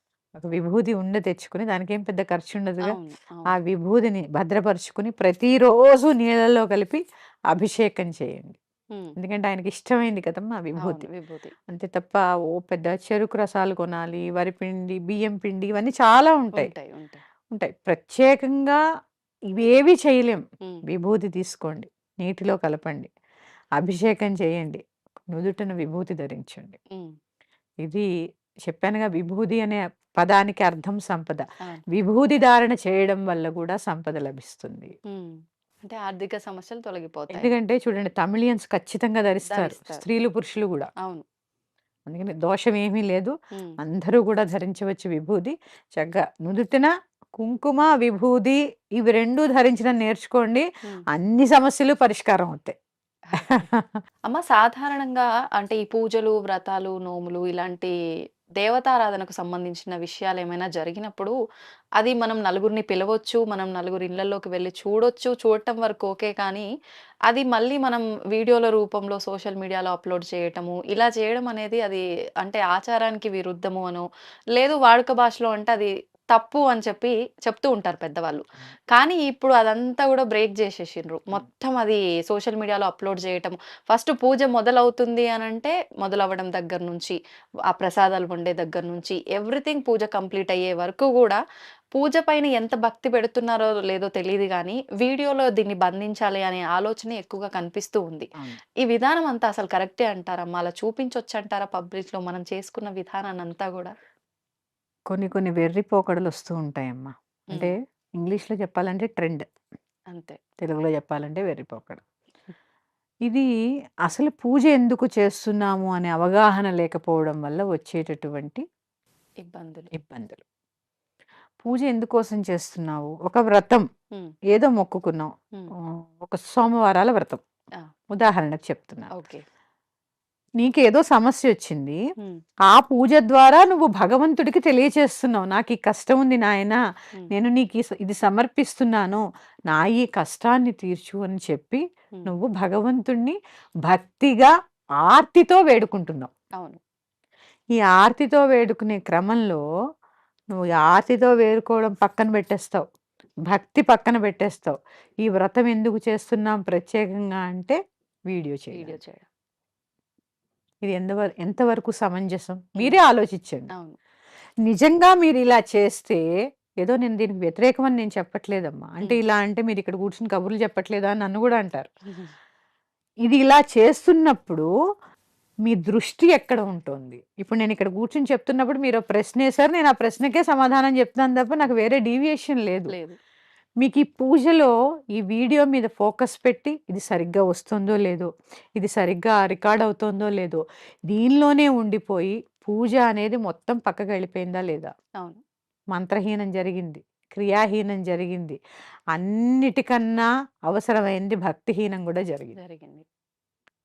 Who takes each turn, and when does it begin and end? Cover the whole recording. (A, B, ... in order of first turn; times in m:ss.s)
0:00.4-0:03.0 A
0:02.9-0:03.5 B
0:03.5-0:08.6 A
0:09.2-0:11.1 A
0:10.8-0:11.5 B
0:11.7-0:16.7 A
0:16.5-0:17.2 B
0:17.5-0:18.8 A
0:19.5-0:23.1 A
0:23.8-0:26.8 A
0:27.8-0:28.1 A
0:28.6-0:34.9 A
0:35.8-0:37.5 B
0:37.3-0:40.9 A
0:39.5-0:40.0 B
0:42.1-0:52.7 A
0:53.3-0:53.6 B
0:53.4-0:54.0 A
0:54.3-0:57.9 B
0:58.6-1:01.3 B
1:02.0-1:06.7 B
1:07.3-1:18.4 B
1:18.9-1:27.2 B
1:27.7-1:31.4 B
1:31.9-1:38.3 B
1:38.8-1:43.9 B
1:45.1-1:49.4 A
1:50.1-1:50.4 B
1:50.6-1:52.0 A
1:54.1-1:58.6 A
1:59.4-1:59.9 B
1:59.9-2:00.4 A
2:01.6-2:03.8 A
2:04.5-2:07.4 A
2:08.1-2:09.1 A
2:09.1-2:09.4 B
2:10.6-2:12.0 A
2:12.7-2:16.8 A
2:17.3-2:24.5 A
2:25.1-2:26.3 A
2:27.7-2:29.6 A
2:30.5-2:32.8 A
2:33.5-2:37.8 A
2:38.3-2:39.0 A
2:38.7-2:39.2 B
2:40.8-2:43.7 A
2:44.6-2:46.2 A
2:46.8-2:51.9 A
2:53.2-2:54.7 A
2:55.6-3:02.9 A
3:02.9-3:03.2 B
3:03.8-3:14.9 A
3:15.9-3:18.6 A
3:19.1-3:22.5 A
3:22.5-3:23.0 B